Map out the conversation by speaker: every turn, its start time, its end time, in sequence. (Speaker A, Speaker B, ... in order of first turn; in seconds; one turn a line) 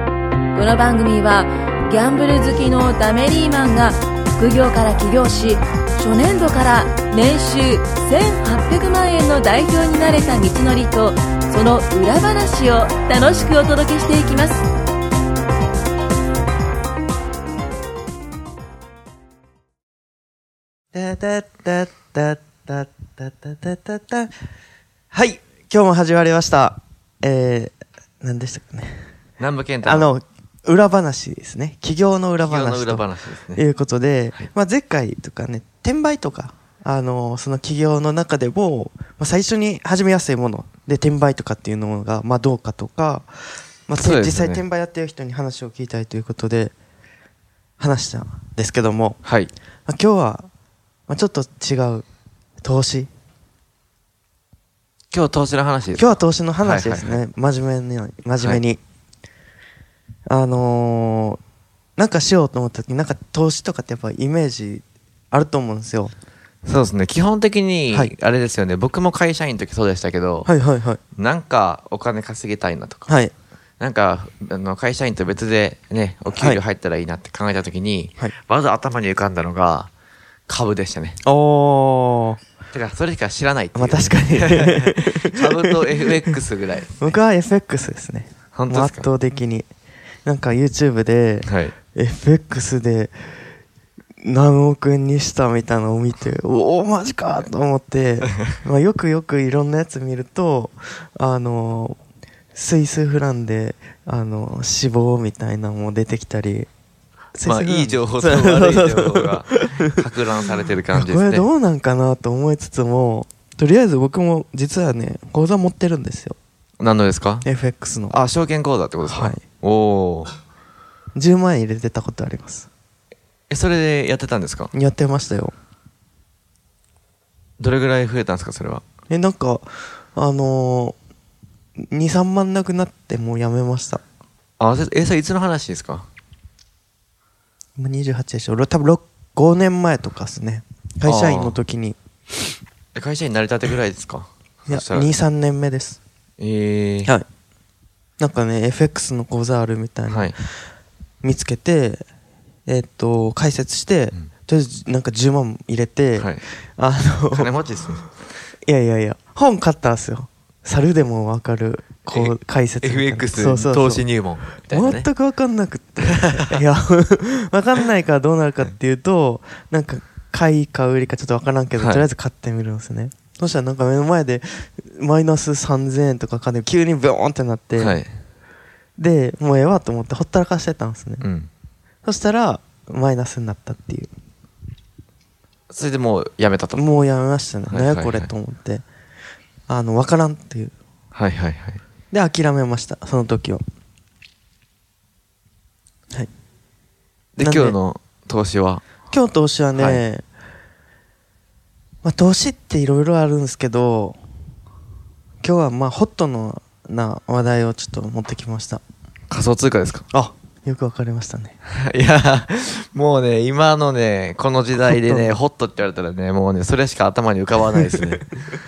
Speaker A: 0.5-14.6
Speaker B: 20.9-24.3
Speaker B: 25.1-29.1
Speaker C: 29.4-30.1
Speaker B: 29.8-43.3
Speaker C: 32.4-33.6
Speaker B: 43.9-46.7
Speaker C: 44.0-44.6
Speaker B: 47.8-49.2
Speaker C: 49.2-49.5
Speaker B: 49.9-50.5
Speaker B: 51.1-52.0
Speaker B: 52.6-53.1
Speaker C: 55.1-57.2
Speaker B: 55.9-58.8
Speaker B: 60.3-61.4
Speaker B: 62.0-66.1
Speaker C: 66.6-70.5
Speaker B: 70.5-71.0
Speaker C: 71.2-73.1
Speaker B: 73.1-73.3
Speaker C: 73.8-79.9
Speaker C: 80.5-81.2
Speaker B: 81.2-82.4
Speaker C: 82.7-87.2
Speaker B: 83.7-86.3
Speaker B: 87.0-89.7
Speaker C: 88.5-89.1
Speaker B: 90.2-93.2
Speaker C: 91.4-91.7
Speaker B: 94.2-102.0
Speaker B: 102.5-106.7
Speaker B: 107.3-109.9
Speaker C: 107.4-111.5
Speaker B: 110.9-116.4
Speaker C: 116.8-117.5
Speaker B: 117.4-118.2
Speaker C: 118.1-120.3
Speaker B: 119.0-119.4
Speaker B: 121.1-122.7
Speaker C: 123.5-124.7
Speaker B: 124.7-125.5
Speaker C: 127.6-128.8
Speaker B: 129.1-131.0
Speaker B: 131.8-134.0
Speaker C: 134.6-136.1
Speaker B: 137.8-142.0
Speaker C: 141.0-141.6
Speaker C: 142.9-145.1
Speaker B: 144.7-146.0
Speaker C: 146.4-147.1
Speaker B: 148.2-150.5
Speaker C: 150.1-150.3
Speaker B: 151.2-152.1
Speaker B: 152.7-157.5
Speaker C: 156.2-156.4
Speaker C: 157.3-158.1
Speaker B: 158.6-164.1
Speaker C: 162.1-165.1
Speaker B: 164.6-178.0
Speaker C: 166.0-166.6
Speaker C: 171.8-172.1
Speaker C: 177.8-178.1
Speaker B: 179.0-181.2
Speaker C: 181.2-181.5
Speaker B: 182.0-184.1
Speaker C: 185.7-186.8
Speaker B: 186.7-188.8
Speaker C: 187.7-188.3
Speaker B: 189.7-190.7
Speaker C: 191.1-191.8
Speaker B: 192.1-193.6
Speaker C: 197.3-198.8
Speaker B: 197.4-197.8
Speaker B: 199.1-200.2
Speaker C: 199.7-200.0
Speaker B: 202.0-204.2
Speaker B: 205.4-208.8
Speaker C: 209.3-210.1
Speaker B: 210.1-211.6
Speaker C: 211.7-218.4
Speaker B: 214.8-215.3